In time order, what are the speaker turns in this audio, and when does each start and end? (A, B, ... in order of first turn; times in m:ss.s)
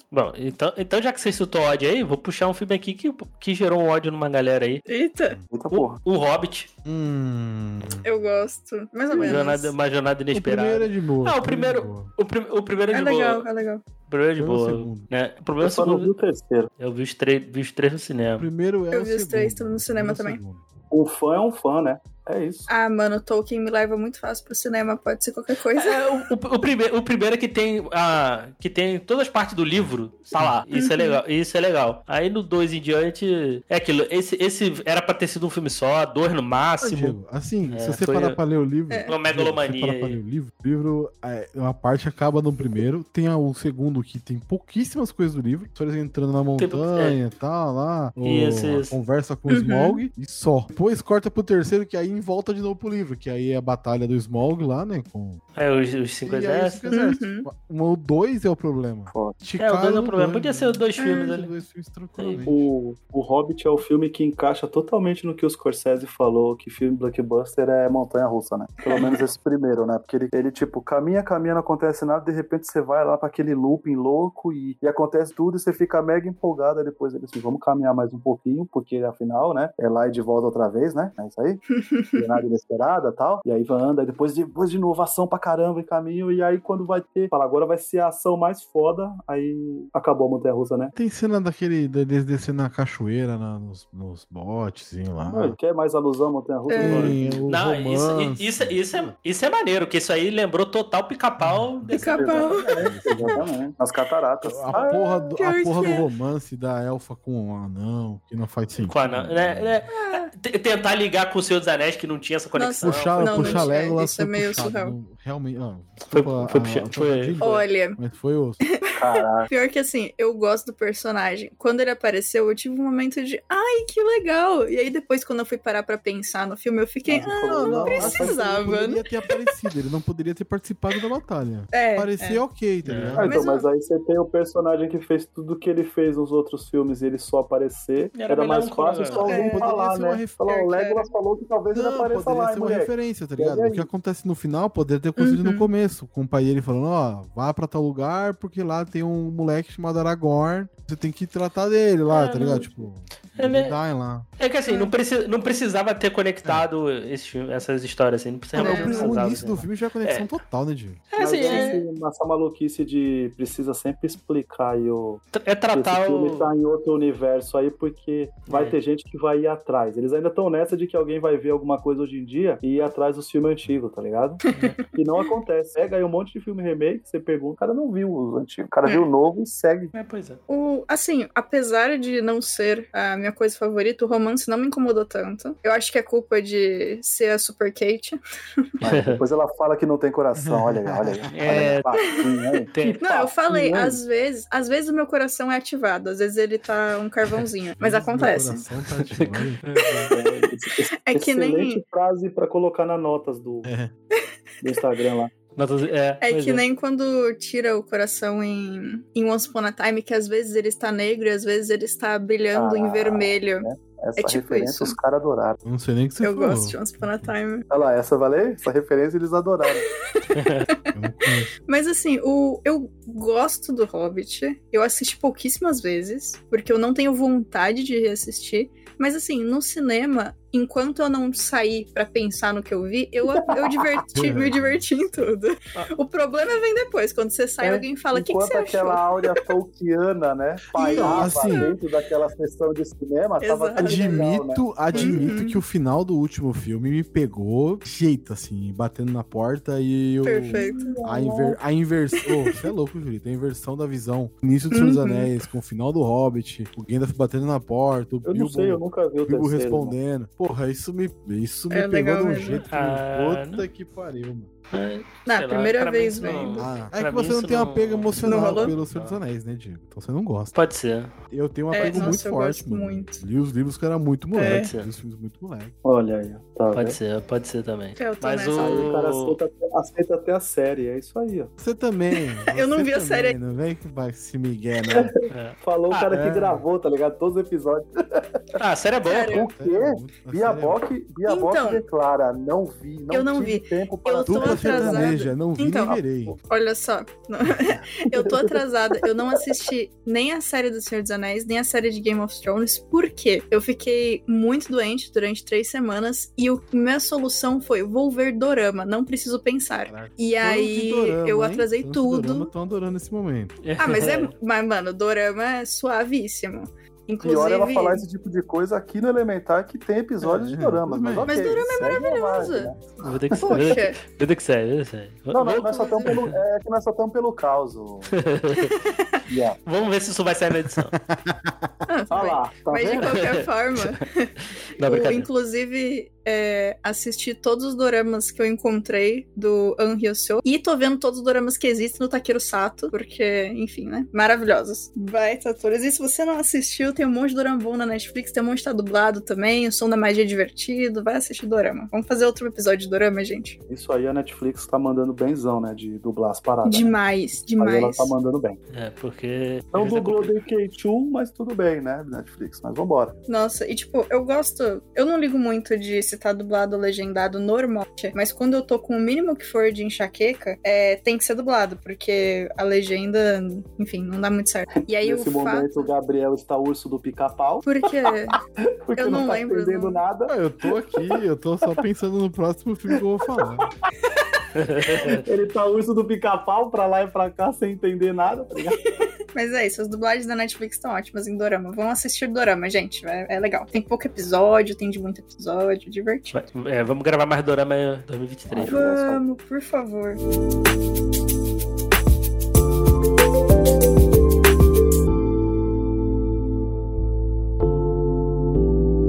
0:00.1-0:04.8 A
0:04.9-0:05.4 B
0:05.5-0:06.0 C
0:05.7-0:06.7 A
0:06.8-0:08.0 D
0:08.0-0:09.7 B
0:09.1-0:09.4 C
0:09.2-0:13.4 A
0:10.3-0:12.1 D
0:12.9-0:13.8 B
0:14.1-0:16.1 A
0:14.4-0:15.1 D
0:15.6-0:16.7 C
0:16.8-0:18.5 A
0:18.4-0:20.6 D
0:18.9-0:20.4 B
0:20.9-0:22.7 C
0:22.7-0:26.3 B
0:25.8-0:37.2 A
0:30.7-0:31.2 B
0:36.8-0:55.4 D
0:37.7-0:38.4 A
0:38.9-0:39.2 B
0:39.1-0:40.2 A
0:46.6-0:47.2 A
0:48.2-0:48.9 A
0:49.5-0:50.0 B
0:55.6-0:56.8 A
0:56.2-1:02.7 D
0:56.9-0:57.4 B
0:59.1-0:59.4 C
0:59.6-1:01.5 A
1:01.0-1:01.4 B
1:02.2-1:02.4 A
1:02.4-1:21.6 C
1:08.8-1:09.2 B
1:21.7-1:22.4 B
1:22.2-1:30.9 C
1:30.9-1:35.6 D
1:35.3-1:37.4 C
1:36.7-1:37.2 B
1:36.8-1:39.1 D
1:36.8-1:42.5 A
1:41.4-1:42.1 D
1:41.9-1:43.4 B
1:42.1-1:45.0 C
1:42.8-1:43.5 D
1:44.4-1:49.8 D
1:44.7-1:46.0 B
1:48.8-1:53.7 A
1:50.0-1:50.3 B
1:52.6-1:54.9 B
1:52.8-1:58.6 D
1:56.1-1:57.6 A
1:57.4-1:58.0 B
1:58.7-2:09.5 B
1:59.0-1:59.5 C
2:07.1-2:08.4 C
2:07.4-2:13.3 D
2:11.7-2:12.4 B
2:12.8-2:13.2 A
2:13.2-2:23.9 C
2:13.2-2:13.6 B
2:18.1-2:19.3 A
2:19.1-2:20.4 D
2:19.3-2:19.7 B
2:20.5-2:21.1 B
2:21.7-2:34.2 D
2:25.2-2:25.7 B
2:32.1-2:32.7 A
2:32.3-2:32.6 B
2:33.3-2:33.7 A
2:34.4-2:40.3 A
2:34.7-2:34.9 B
2:38.5-2:41.0 D
2:38.6-2:39.2 B
2:41.1-2:41.8 A
2:41.2-2:54.4 C
2:41.4-2:41.8 B
2:45.3-2:46.5 A
2:48.5-2:48.7 A
2:54.5-2:54.8 B
2:54.5-2:54.8 A
2:54.9-2:59.9 C
2:59.9-3:00.4 A
3:00.5-3:08.2 B
3:08.8-3:14.0 C
3:08.8-3:09.2 A
3:10.4-3:11.6 D
3:11.3-3:11.9 A
3:12.0-3:18.6 B
3:12.7-3:13.0 A
3:17.8-3:19.6 D
3:19.1-3:20.1 A
3:19.8-3:20.2 B
3:20.1-3:23.7 C
3:21.0-3:21.8 B
3:23.6-3:23.9 D
3:24.6-3:25.3 C
3:25.6-3:26.6 A
3:26.2-3:35.0 B
3:32.5-3:35.6 C
3:35.6-3:37.3 D
3:36.2-3:37.6 B
3:37.7-3:39.9 C
3:39.8-3:59.1 B
3:40.3-3:40.7 A
3:40.9-3:41.5 D
3:53.3-3:54.0 C
3:54.1-3:55.3 D
3:57.6-4:05.3 C
4:00.8-4:01.8 B
4:00.9-4:01.7 D
4:03.4-4:04.1 B
4:03.8-4:24.5 D
4:04.9-4:05.6 B
4:10.2-4:11.0 B
4:10.5-4:11.6 C
4:14.7-4:15.3 B
4:18.2-4:20.0 C
4:21.7-4:22.6 B
4:22.7-4:23.6 A
4:24.7-4:29.2 A
4:25.2-4:26.7 B
4:26.6-4:30.5 D
4:28.2-4:28.7 B
4:30.5-4:31.1 A
4:31.3-4:35.7 D
4:31.7-4:33.2 B
4:31.8-4:32.2 A
4:34.3-4:34.7 B
4:34.4-4:34.9 A
4:35.8-4:37.0 C
4:36.7-4:39.4 A
4:38.0-4:38.9 B
4:38.6-4:41.5 C
4:41.6-4:45.1 D
4:42.4-4:43.4 B
4:44.9-4:48.4 C
4:45.3-4:46.4 A
4:48.6-4:49.4 A
4:49.0-4:49.5 B
4:49.2-4:55.2 C
4:49.6-4:50.8 D
4:51.2-4:51.8 B
4:53.1-5:12.5 B
4:54.2-4:56.4 D
4:58.1-4:59.1 C
5:09.8-5:13.6 D
5:13.6-5:14.3 A
5:13.8-5:18.0 B
5:17.2-5:22.8 C
5:20.4-5:21.4 D
5:21.2-5:22.8 B
5:23.0-5:26.4 A
5:23.3-5:23.6 C
5:23.4-5:24.0 B
5:25.3-5:28.1 C
5:25.6-5:26.2 B
5:28.1-5:28.7 A
5:28.6-5:29.2 B
5:29.3-5:29.6 C
5:29.6-5:30.9 A
5:30.7-5:31.7 D
5:31.9-5:53.6 B
5:32.1-5:33.2 C
5:32.9-5:34.0 A
5:34.8-5:35.3 A
5:53.7-5:56.9 C
5:56.6-5:58.1 B
5:57.6-5:58.6 C
5:58.7-6:00.4 A
5:59.7-6:03.1 C
6:03.3-6:15.9 B
6:15.0-6:18.0 C
6:17.6-6:18.4 B
6:18.8-6:21.2 C
6:19.0-6:20.0 B
6:20.3-6:23.7 D
6:24.2-6:25.2 B
6:24.5-6:25.2 A
6:25.1-6:28.8 C
6:28.8-6:36.4 B
6:36.3-6:38.8 A
6:38.5-6:39.2 C
6:38.7-6:40.2 B